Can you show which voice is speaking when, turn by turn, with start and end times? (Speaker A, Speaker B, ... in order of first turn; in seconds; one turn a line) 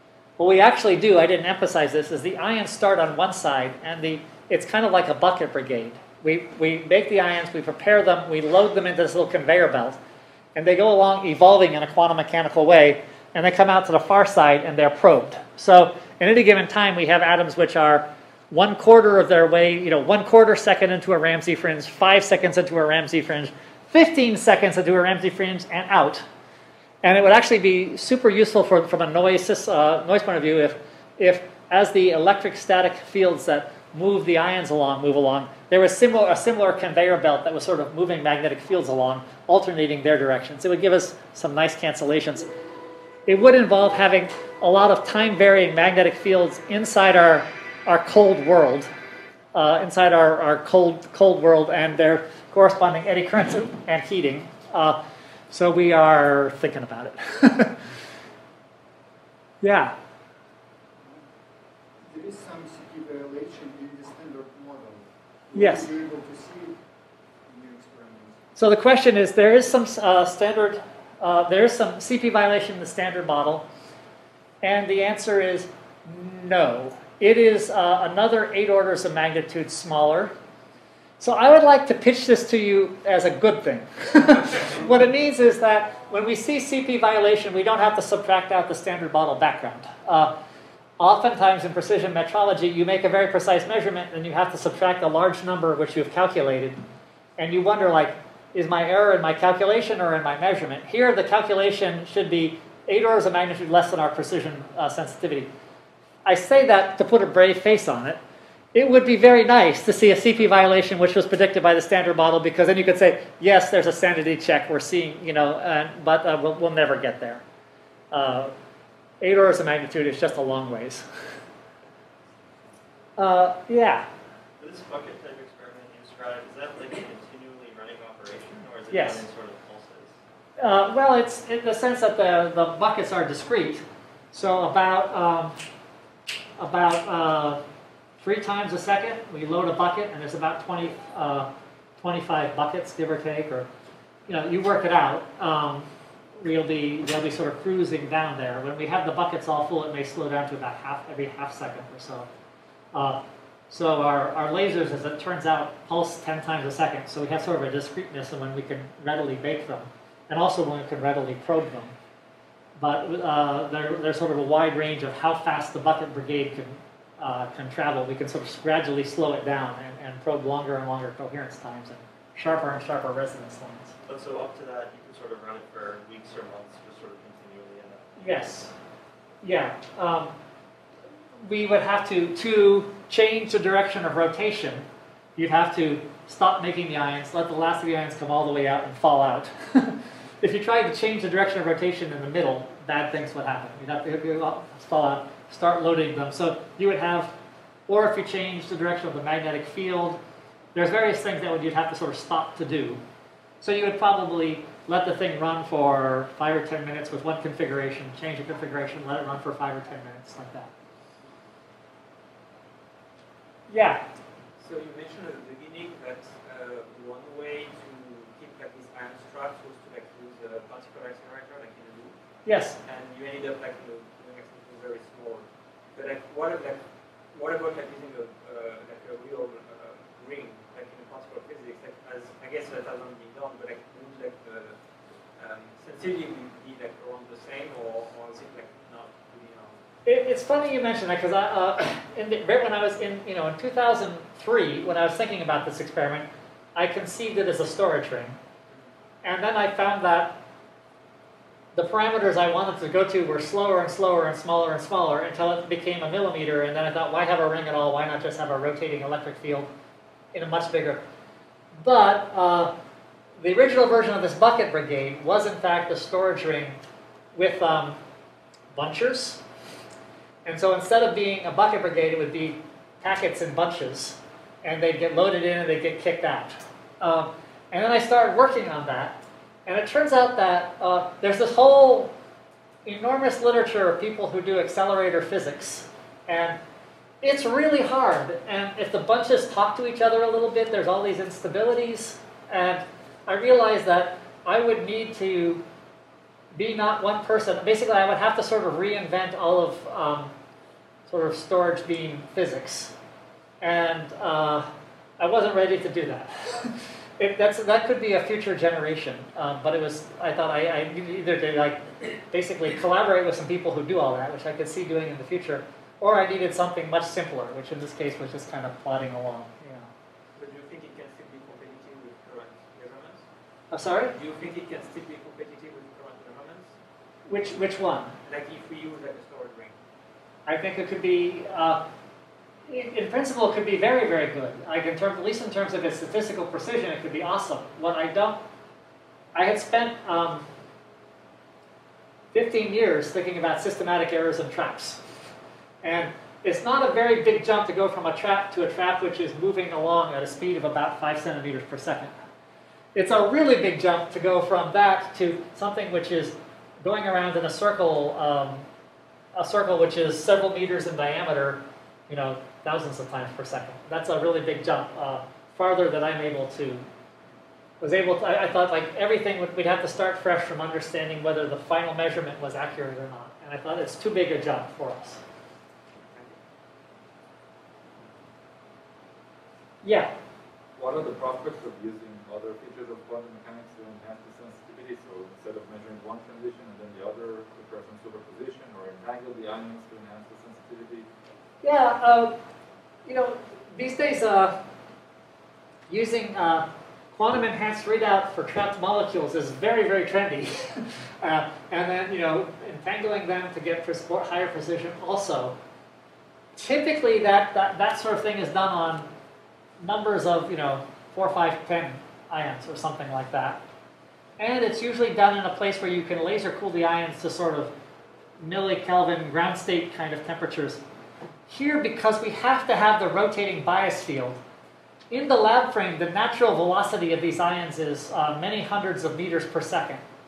Speaker A: 0.4-10.0
Speaker A: 10.5-26.2
Speaker A: 27.0-42.5
Speaker A: 43.3-48.9
Speaker A: 49.5-55.0
Speaker A: 55.5-57.8
Speaker A: 59.6-59.9
Speaker B: 62.1-66.8
Speaker A: 65.5-65.9
Speaker B: 67.5-68.4
Speaker A: 68.6-73.6
Speaker A: 74.6-80.3
Speaker A: 81.2-90.3
Speaker A: 91.0-96.8
Speaker A: 97.4-105.5
Speaker A: 106.2-108.2
Speaker A: 108.7-117.4
Speaker A: 118.1-118.5
Speaker A: 119.2-121.0
Speaker A: 123.2-124.0
Speaker C: 124.6-130.0
Speaker A: 128.9-129.2
Speaker A: 130.6-135.5
Speaker A: 136.6-137.6
Speaker A: 138.2-143.7
Speaker A: 144.3-145.9
Speaker A: 146.4-152.3
Speaker A: 152.9-161.9
Speaker A: 162.8-173.9
Speaker C: 174.1-178.0
Speaker A: 178.2-178.7
Speaker A: 179.4-180.3
Speaker A: 181.4-184.8
Speaker A: 185.4-197.3
Speaker A: 197.9-200.2
Speaker A: 200.7-203.0
Speaker A: 203.6-210.7
Speaker A: 213.7-214.0
Speaker D: 214.6-222.2
Speaker A: 222.4-222.8
Speaker D: 222.8-226.8
Speaker D: 227.3-234.8
Speaker D: 235.4-239.8
Speaker A: 240.0-248.4
Speaker A: 249.2-250.3
Speaker A: 251.7-259.7
Speaker A: 260.3-261.0
Speaker A: 261.8-262.7
Speaker A: 263.4-266.8
Speaker A: 267.3-268.0
Speaker A: 268.7-269.4
Speaker A: 270.4-282.1
Speaker A: 282.8-286.6
Speaker A: 287.2-295.6
Speaker A: 296.5-300.3
Speaker A: 301.1-302.9
Speaker A: 303.6-319.9
Speaker D: 320.3-323.2
Speaker A: 323.7-324.1
Speaker D: 324.1-326.7
Speaker A: 327.3-328.1
Speaker D: 328.2-329.8
Speaker A: 330.4-331.8
Speaker A: 332.7-338.4
Speaker A: 339.3-340.4
Speaker A: 342.3-345.0
Speaker A: 345.8-352.1
Speaker A: 352.9-358.6
Speaker A: 359.3-366.9
Speaker A: 367.8-375.2
Speaker A: 379.8-380.1
Speaker E: 380.8-391.1
Speaker A: 391.6-392.3
Speaker A: 393.1-394.6
Speaker A: 395.9-405.5
Speaker A: 406.6-409.1
Speaker A: 409.8-413.6
Speaker A: 414.4-417.7
Speaker A: 418.4-420.8
Speaker A: 421.5-424.4
Speaker A: 425.1-430.0